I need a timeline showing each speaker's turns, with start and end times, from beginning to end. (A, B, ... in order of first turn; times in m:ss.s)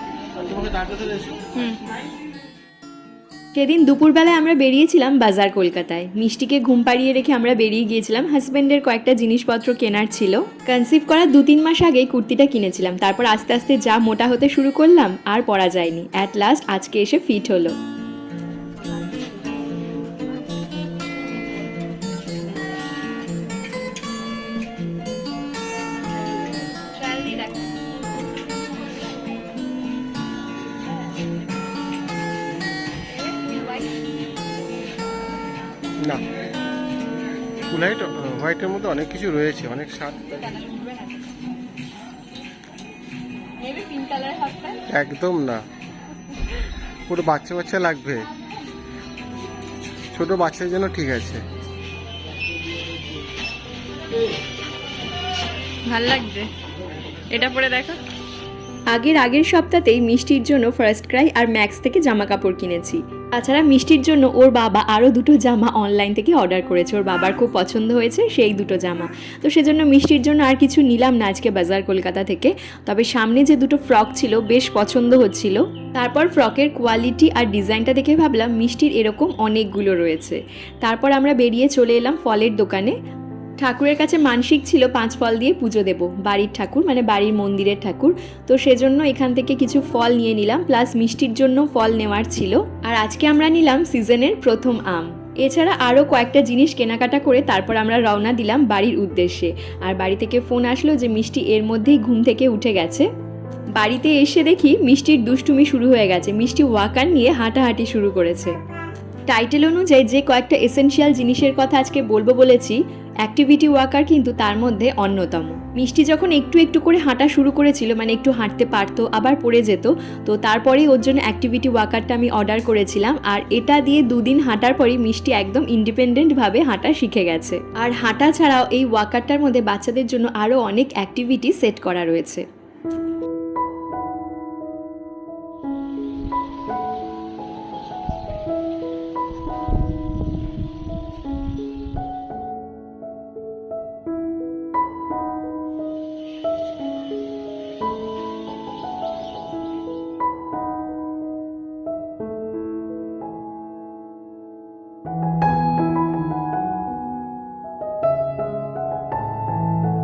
0:00.3-0:01.5 A
0:01.5-0:01.9 B
0:03.6-0:17.8 C
0:27.0-0:27.7 B
0:33.4-0:33.8 B
0:36.0-0:36.3 A
0:37.6-0:40.5 A
0:40.5-0:41.0 B
0:43.6-0:44.9 B
0:44.8-0:45.7 A
0:47.0-0:48.3 A
0:50.1-0:51.4 A
0:55.9-0:56.5 B
0:57.3-0:58.0 B
0:58.9-1:23.0 C
1:23.6-1:43.1 C
1:43.8-1:48.6 C
1:49.3-2:12.4 C